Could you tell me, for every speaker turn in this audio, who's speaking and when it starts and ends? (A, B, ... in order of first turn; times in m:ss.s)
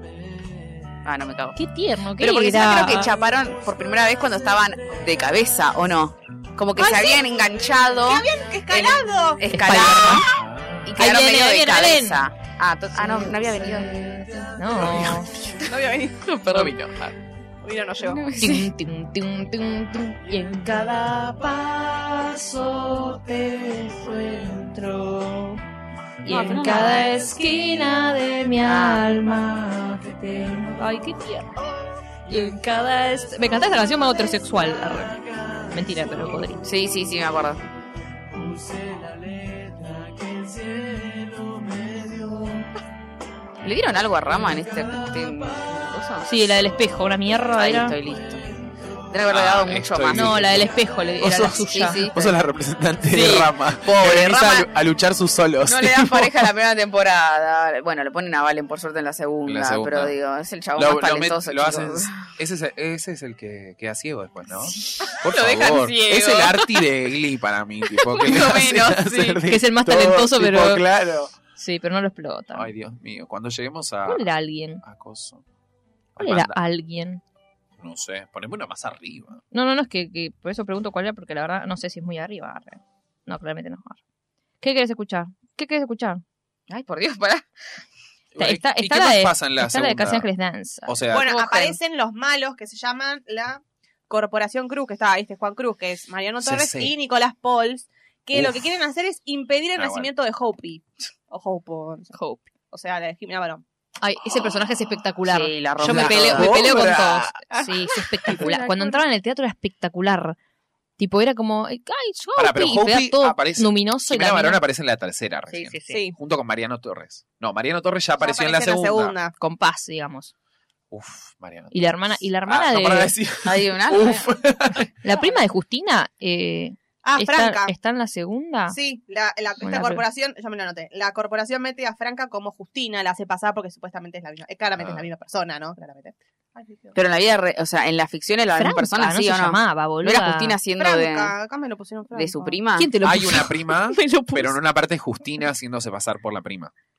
0:01.0-0:01.5 A
0:01.5-0:03.1 B
0:02.2-0:14.0 A
0:06.8-0:07.3 C
0:08.0-0:09.4 C
0:09.5-0:10.3 B
0:10.2-0:10.9 D
0:11.0-0:12.2 B
0:13.1-0:14.7 E
0:14.5-0:15.3 B
0:15.6-0:16.3 C
0:16.2-0:17.1 A
0:17.6-0:18.3 C
0:18.0-0:18.7 A
0:18.4-0:20.5 B
0:20.4-0:25.6 E
0:26.2-0:30.8 E
0:26.3-0:27.0 B
0:26.3-0:27.1 A
0:28.6-0:29.1 A
0:30.8-0:31.5 B
0:32.3-0:33.2 E
0:33.1-0:36.6 B
0:36.6-0:37.6 A
0:43.6-0:46.3 A
0:46.3-0:48.0 B
0:47.4-0:48.4 A
0:49.1-0:50.6 A
0:49.2-0:56.5 D
0:50.1-0:52.2 B
0:51.6-0:52.4 A
0:53.1-0:54.7 A
0:53.1-0:53.5 B
0:55.6-1:02.3 A
0:59.4-1:00.2 D
1:00.8-1:11.3 D
1:04.6-1:06.8 A
1:07.8-1:09.4 A
1:09.5-1:10.8 B
1:11.6-1:12.7 B
1:12.5-1:15.4 D
1:14.0-1:14.8 B
1:16.2-1:16.6 D
1:16.2-1:17.2 B
1:17.8-1:19.4 D
1:19.5-1:24.0 B
1:24.6-1:26.2 B
1:26.7-1:27.4 A
1:28.3-1:30.3 D
1:28.4-1:31.0 B
1:30.8-1:31.3 D
1:31.1-1:42.1 C
1:31.2-1:31.8 A
1:36.4-1:36.9 D
1:38.3-1:38.7 D
1:39.8-1:40.1 D
1:42.1-1:42.5 B
1:42.7-1:43.6 C
1:44.0-1:50.4 B
1:44.3-1:44.6 A
1:45.2-1:46.7 A
1:45.8-1:47.4 D
1:47.5-1:49.0 C
1:51.0-1:54.6 B
1:52.4-1:59.1 D
1:55.7-1:56.0 B
1:55.9-1:56.2 C
1:58.2-1:59.3 C
1:59.4-2:00.3 B
2:00.9-2:05.0 D
2:01.7-2:03.1 B
2:03.4-2:04.3 A
2:05.0-2:08.8 B
2:07.0-2:07.7 C
2:08.7-2:17.0 C
2:09.6-2:10.0 B
2:14.8-2:15.0 D
2:16.9-2:21.3 A
2:18.6-2:20.6 B
2:20.8-2:22.6 C
2:22.1-2:22.9 A
2:22.8-2:24.6 B
2:23.0-2:26.7 D